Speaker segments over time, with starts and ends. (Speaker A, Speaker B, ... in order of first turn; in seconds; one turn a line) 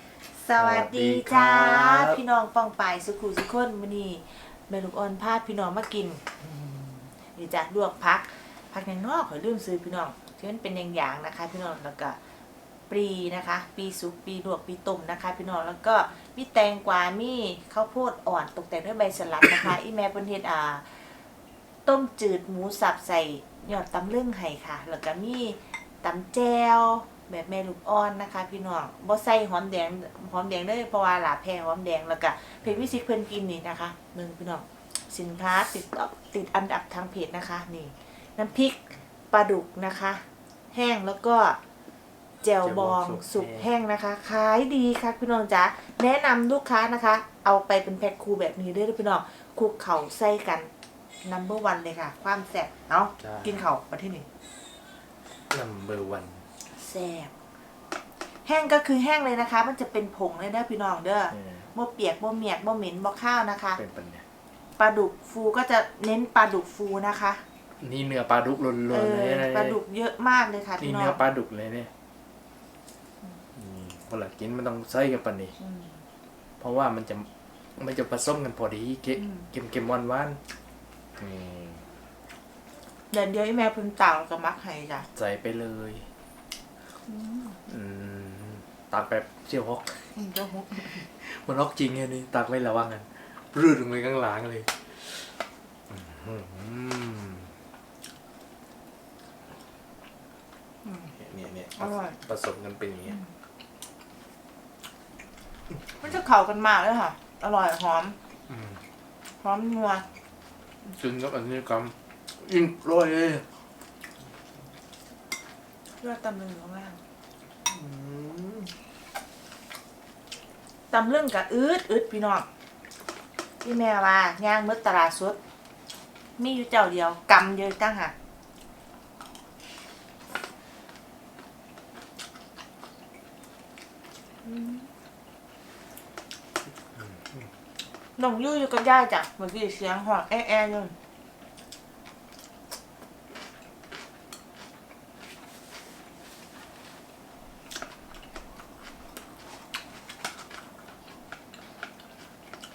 Speaker A: 0.3-6.5
Speaker B: 0.6-2.2
Speaker A: 7.3-12.2
Speaker A: 12.9-21.1
Speaker A: 21.8-41.6
Speaker A: 42.4-50.7
Speaker B: 42.6-43.7
Speaker A: 51.2-54.2
Speaker B: 53.2-53.6
Speaker B: 55.5-56.4
Speaker A: 56.7-57.3
Speaker A: 58.4-63.8
Speaker B: 61.3-61.7
Speaker B: 63.7-64.2
Speaker A: 64.8-67.4
Speaker B: 67.8-69.8
Speaker A: 68.9-71.2
Speaker B: 70.8-71.9
Speaker B: 73.5-75.5
Speaker A: 75.6-76.0
Speaker B: 76.6-80.4
Speaker A: 79.2-79.5
Speaker B: 81.2-81.9
Speaker A: 83.1-85.0
Speaker B: 85.2-86.1
Speaker A: 87.0-87.6
Speaker B: 87.7-90.1
Speaker A: 90.1-91.0
Speaker B: 91.0-95.3
Speaker B: 95.9-97.5
Speaker A: 100.8-101.1
Speaker B: 101.1-103.2
Speaker A: 101.8-102.2
Speaker A: 106.0-108.2
Speaker B: 108.5-108.8
Speaker A: 109.4-110.0
Speaker B: 110.9-113.4
Speaker A: 116.0-117.0
Speaker B: 117.7-118.7
Speaker A: 120.9-122.5
Speaker A: 123.6-125.4
Speaker A: 126.4-128.1
Speaker A: 134.4-134.9
Speaker A: 138.2-140.9